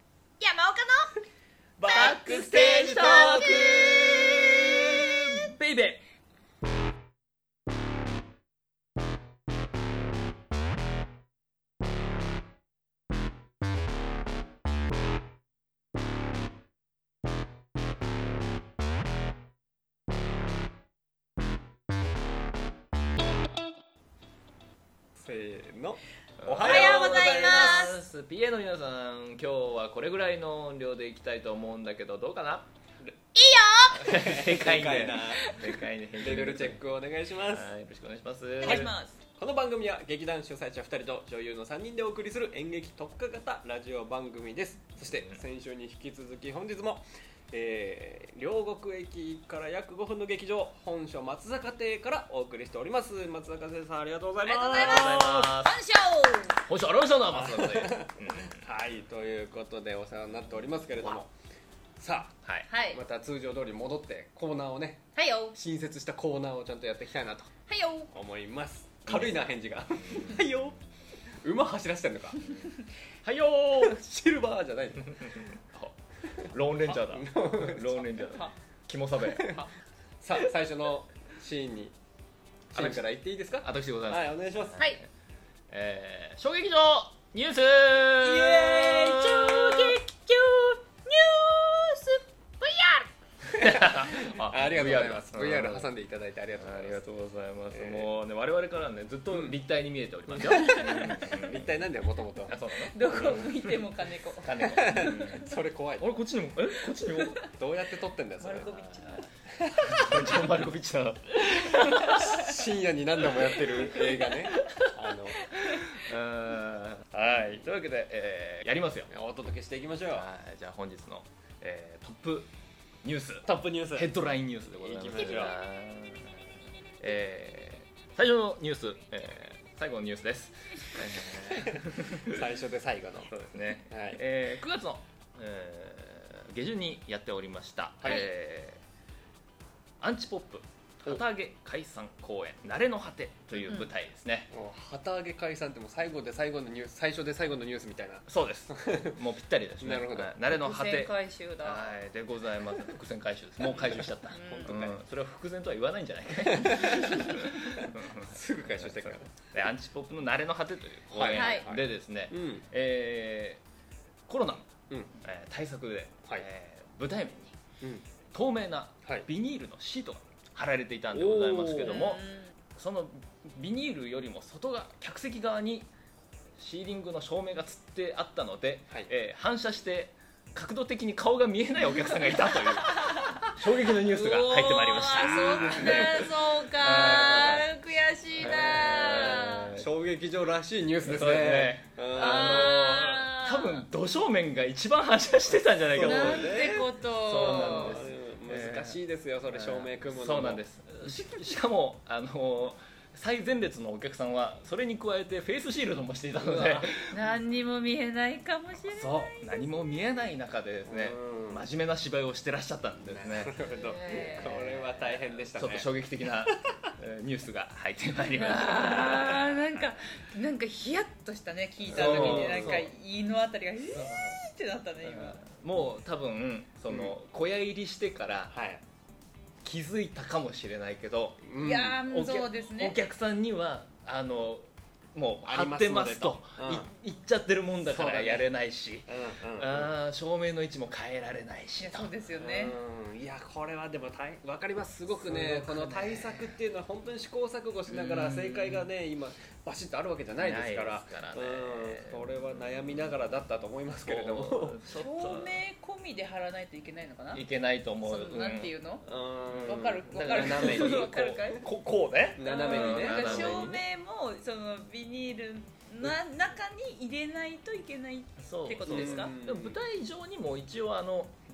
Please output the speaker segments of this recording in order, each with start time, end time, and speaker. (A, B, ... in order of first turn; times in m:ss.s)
0:00.4-0:01.1 A
0:01.8-0:03.6 B
0:01.8-0:06.0 C
0:01.9-0:05.4 A
0:25.1-0:28.0 B
0:26.4-0:32.7 C
0:26.6-0:28.0 A
0:33.3-0:34.0 A
0:33.9-0:35.6 B
0:33.9-0:36.8 C
0:35.2-0:35.6 A
0:36.2-0:37.7 B
0:37.4-0:38.9 C
0:38.6-0:39.2 A
0:38.6-0:55.6 B
0:45.1-0:45.4 C
0:54.4-0:56.6 A
0:54.6-0:55.8 C
0:56.6-0:58.6 C
0:57.3-1:01.3 B
1:02.0-1:02.4 B
1:02.7-1:03.0 A
1:02.9-1:07.5 B
1:05.2-1:05.6 A
1:07.7-1:08.1 A
1:08.1-1:12.4 B
1:09.1-1:09.4 C
1:09.9-1:10.8 C
1:12.4-1:12.7 C
1:13.2-1:14.0 C
1:13.6-1:15.4 B
1:15.1-1:19.6 C
1:16.3-1:18.4 B
1:19.2-1:19.7 B
1:20.2-1:22.0 B
1:22.7-1:24.8 B
1:22.7-1:23.0 C
1:23.6-1:25.1 C
1:25.7-1:30.0 C
1:28.2-1:33.1 A
1:33.5-1:35.9 C
1:33.5-1:37.0 B
1:36.6-1:41.9 C
1:37.7-1:38.1 B
1:39.3-1:39.6 B
1:40.3-1:43.4 B
1:40.5-1:41.1 A
1:42.5-1:43.8 C
1:42.8-1:45.2 A
1:44.4-1:47.5 C
1:44.6-1:46.2 B
1:47.0-1:47.5 A
1:47.5-1:48.8 B
1:48.4-1:49.2 A
1:48.7-1:52.4 C
1:49.5-1:50.2 B
1:52.2-1:55.5 B
1:53.5-1:59.1 C
1:57.1-1:57.6 B
1:59.1-2:00.2 B
2:00.1-2:02.5 C
2:03.0-2:12.4 C
2:03.4-2:04.1 B
2:04.8-2:05.6 B
2:11.3-2:13.3 B
2:13.3-2:18.8 C
2:13.9-2:14.2 B
2:18.0-2:18.2 B
2:20.0-2:24.5 C
2:24.5-2:29.2 B
2:28.3-2:43.6 C
2:29.8-2:30.4 B
2:30.4-2:31.9 A
2:33.8-2:35.0 B
2:34.3-2:34.7 A
2:36.4-2:39.3 B
2:41.1-2:42.6 B
2:41.3-2:41.7 A
2:44.3-2:47.6 C
2:44.9-2:45.1 B
2:47.8-2:48.0 B
2:48.3-2:55.9 C
2:51.1-2:52.0 B
2:51.8-2:52.5 A
2:56.6-3:07.6 C
3:02.6-3:03.4 A
3:04.0-3:09.7 A
3:05.1-3:06.3 B
3:06.9-3:07.6 B
3:08.4-3:09.9 C
3:09.1-3:12.9 B
3:11.0-3:27.2 C
3:12.2-3:13.8 A
3:15.9-3:20.6 B
3:16.0-3:18.0 A
3:26.4-3:26.9 B
3:27.1-3:29.7 A
3:28.9-3:39.6 C
3:30.8-3:31.6 B
3:33.0-3:35.9 B
3:33.7-3:34.6 A
3:36.5-3:36.9 B
3:38.4-3:45.4 A
3:41.8-3:42.9 C
3:41.9-3:42.9 B
3:43.9-3:44.4 C
3:45.0-3:48.5 C
3:46.9-3:47.2 B
3:48.5-3:48.8 B
3:49.6-3:51.4 C
3:51.4-3:52.0 B
3:51.6-3:53.0 A
3:52.0-4:02.1 C
3:55.4-3:56.9 B
3:57.8-3:58.5 B
3:59.1-3:59.9 B
4:01.8-4:02.8 A
4:02.4-4:14.8 B
4:05.2-4:06.5 C
4:07.9-4:08.9 C
4:10.4-4:13.1 C
4:14.0-4:15.6 C
4:14.9-4:17.4 A
4:17.3-4:18.7 C
4:18.0-4:19.1 A
4:19.0-4:21.4 B
4:19.5-4:23.8 C
4:19.6-4:21.6 A
4:22.4-4:23.8 B
4:22.4-4:29.3 A
4:28.4-4:31.4 C
4:28.9-4:29.8 B